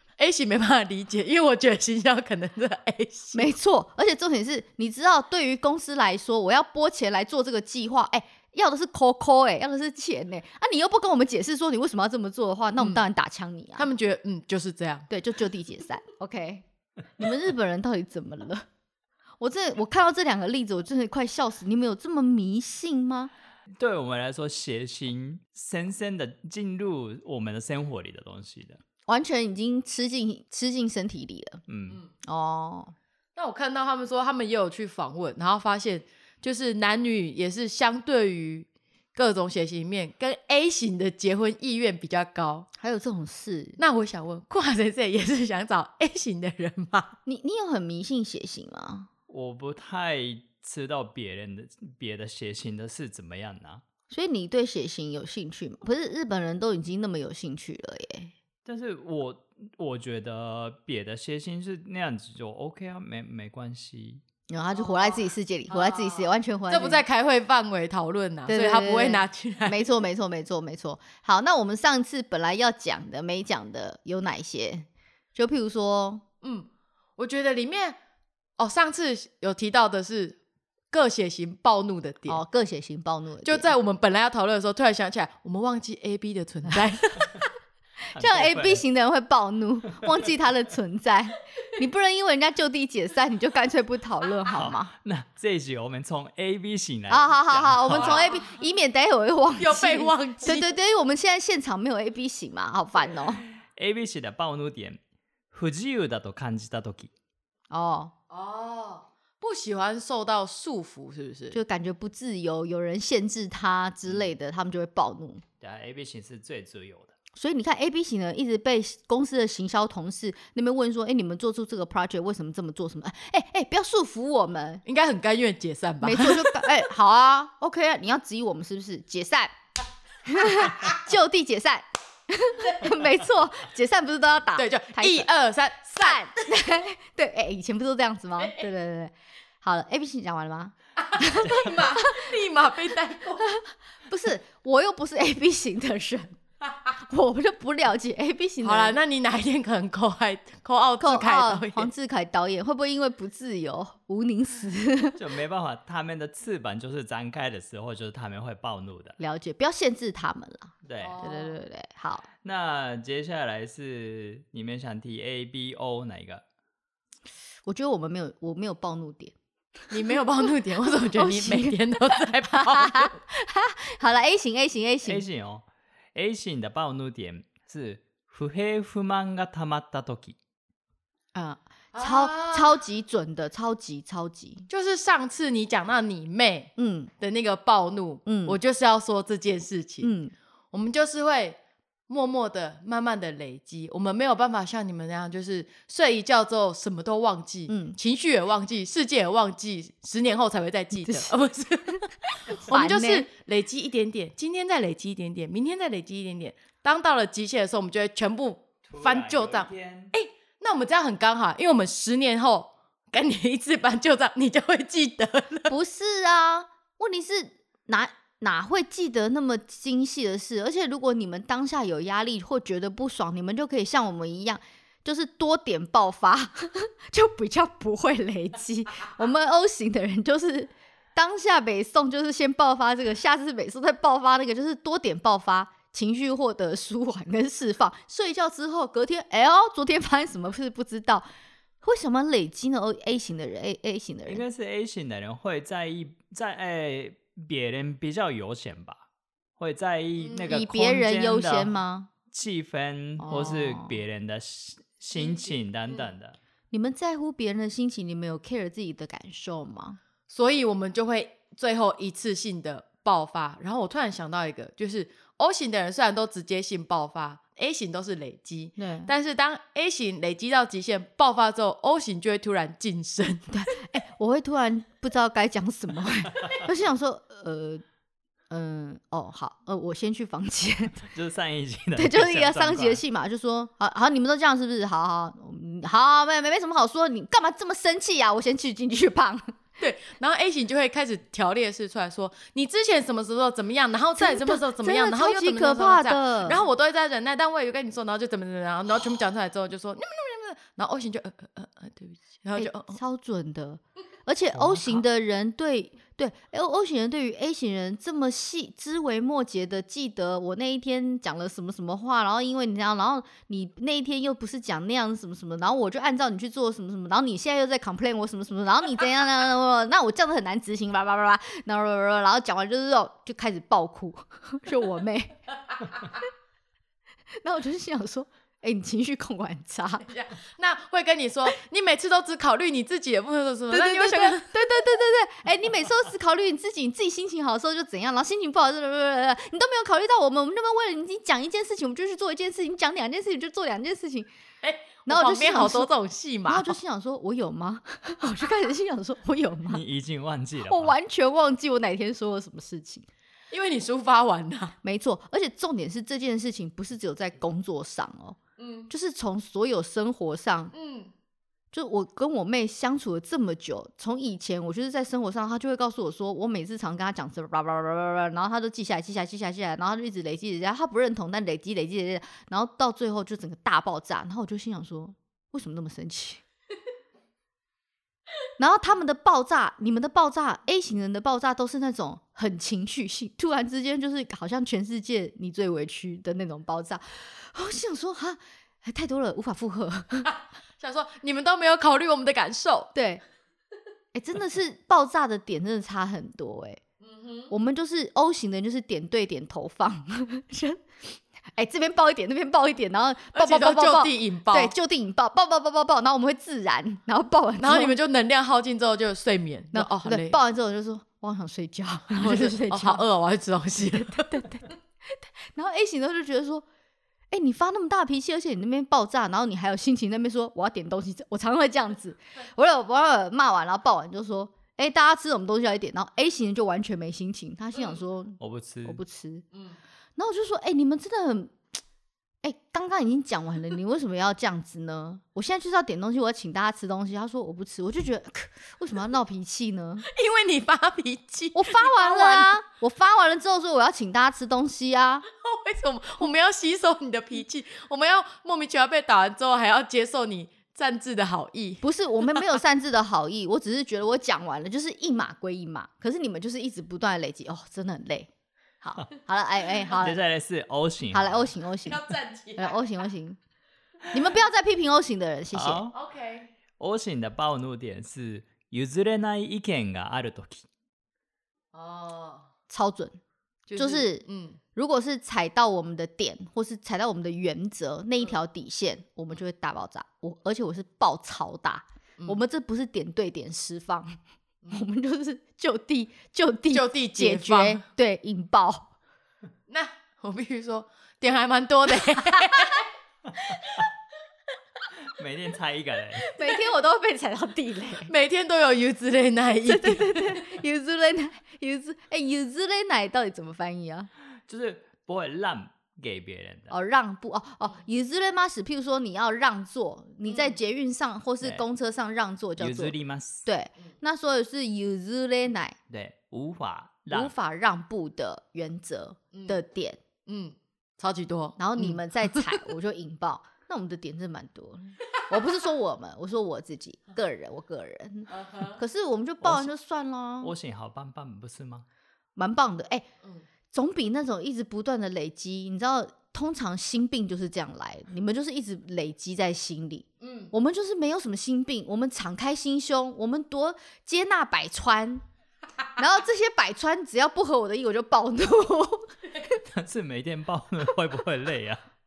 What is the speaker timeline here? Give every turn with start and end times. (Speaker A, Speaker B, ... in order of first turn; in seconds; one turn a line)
Speaker A: 0.1-3.5
Speaker B: 3.3-13.9
Speaker A: 12.8-13.0
Speaker A: 13.8-15.1
Speaker B: 15.1-16.6
Speaker B: 17.2-18.6
Speaker B: 19.4-23.3
Speaker C: 23.7-28.8
Speaker B: 29.1-31.6
Speaker C: 31.7-32.0
Speaker B: 32.2-32.9
Speaker A: 33.4-42.7
Speaker B: 42.8-43.8
Speaker A: 43.8-47.2
Speaker B: 47.2-49.1
Speaker C: 49.3-53.8
Speaker B: 54.1-58.3
Speaker C: 58.6-64.2
Speaker B: 64.5-67.0
Speaker A: 64.7-69.8
Speaker B: 68.5-76.2
Speaker A: 76.4-78.0
Speaker A: 78.6-80.4
Speaker A: 80.9-82.4
Speaker B: 82.3-83.7
Speaker A: 83.4-87.3
Speaker C: 88.1-88.8
Speaker B: 88.1-94.9
Speaker C: 94.5-98.3
Speaker B: 97.1-103.4
Speaker A: 98.0-98.4
Speaker A: 99.6-100.7
Speaker C: 103.6-105.0
Speaker C: 105.5-107.1
Speaker B: 107.7-108.1
Speaker A: 108.3-111.6
Speaker B: 111.5-115.4
Speaker C: 115.6-117.1
Speaker B: 117.3-124.8
Speaker A: 124.8-126.7
Speaker B: 126.0-129.5
Speaker B: 130.2-135.3
Speaker A: 134.6-136.5
Speaker B: 135.9-142.2
Speaker A: 141.0-143.5
Speaker B: 143.5-146.4
Speaker B: 147.0-148.9
Speaker A: 148.6-151.9
Speaker B: 151.0-155.2
Speaker C: 155.2-159.2
Speaker B: 159.2-162.3
Speaker C: 160.8-161.2
Speaker A: 161.0-161.6
Speaker C: 162.4-166.4
Speaker B: 167.7-169.3
Speaker A: 169.9-173.1
Speaker B: 171.1-175.2
Speaker C: 175.1-180.4
Speaker B: 181.3-184.6
Speaker A: 181.9-182.8
Speaker A: 184.7-190.1
Speaker B: 186.8-187.1
Speaker B: 188.2-188.6
Speaker B: 190.0-190.3
Speaker A: 190.7-191.6
Speaker A: 192.1-215.7
Speaker B: 197.7-198.0
Speaker B: 201.0-201.3
Speaker B: 202.7-203.3
Speaker C: 208.9-210.1
Speaker B: 215.7-241.3
Speaker B: 241.8-244.4
Speaker C: 244.3-249.0
Speaker C: 249.6-251.8
Speaker A: 250.2-250.5
Speaker B: 250.5-252.1
Speaker C: 252.3-256.4
Speaker B: 253.2-253.9
Speaker A: 255.2-256.1
Speaker B: 256.7-260.0
Speaker A: 260.3-273.5
Speaker B: 268.8-269.1
Speaker B: 273.5-277.8
Speaker B: 278.5-281.0
Speaker C: 281.0-283.0
Speaker B: 281.9-289.5
Speaker A: 289.8-303.0
Speaker B: 294.2-296.6
Speaker B: 302.6-325.4
Speaker C: 304.5-305.0
Speaker B: 327.4-330.1
Speaker A: 330.1-334.6
Speaker B: 333.7-344.3
Speaker A: 344.6-346.8
Speaker B: 345.1-345.9
Speaker B: 346.5-349.8
Speaker C: 349.7-350.9
Speaker B: 350.6-353.1
Speaker A: 353.5-354.8
Speaker B: 354.8-360.7
Speaker A: 358.6-358.9
Speaker A: 360.7-361.1
Speaker B: 361.7-376.4
Speaker B: 378.6-390.3
Speaker A: 390.8-392.9
Speaker B: 392.9-393.2
Speaker B: 394.1-396.8
Speaker A: 397.0-397.5
Speaker B: 397.5-400.8
Speaker B: 401.5-407.9
Speaker A: 403.3-404.7
Speaker A: 407.6-410.4
Speaker B: 409.7-413.0
Speaker A: 412.1-414.5
Speaker B: 413.9-416.6
Speaker B: 417.3-429.4
Speaker C: 428.4-429.0
Speaker A: 429.5-429.8
Speaker B: 430.2-431.6
Speaker B: 432.4-440.1
Speaker A: 440.1-442.5
Speaker B: 441.5-445.2
Speaker A: 445.4-451.8
Speaker B: 451.8-458.3
Speaker B: 458.8-460.2
Speaker C: 460.0-461.5
Speaker B: 461.1-462.0
Speaker A: 461.8-462.8
Speaker B: 462.6-463.4
Speaker B: 464.1-465.9
Speaker C: 465.5-465.9
Speaker A: 465.9-466.5
Speaker C: 466.8-470.7
Speaker A: 471.7-472.5
Speaker B: 472.7-473.2
Speaker A: 473.7-474.6
Speaker B: 473.8-484.2
Speaker B: 484.7-488.9
Speaker A: 486.7-487.8
Speaker A: 489.7-492.9
Speaker C: 495.0-496.2
Speaker B: 496.3-498.1
Speaker A: 498.1-500.4
Speaker B: 499.6-504.1
Speaker C: 504.5-506.7
Speaker B: 506.7-515.8
Speaker A: 510.3-510.6
Speaker C: 512.6-513.5
Speaker C: 515.9-517.3
Speaker B: 517.1-520.0
Speaker A: 519.3-519.6
Speaker A: 520.3-522.6
Speaker B: 521.6-530.5
Speaker A: 528.3-528.8
Speaker C: 529.4-529.7
Speaker C: 530.4-531.8
Speaker B: 532.4-533.0
Speaker B: 533.7-545.2
Speaker A: 540.2-540.5
Speaker B: 546.0-549.6
Speaker C: 549.6-551.8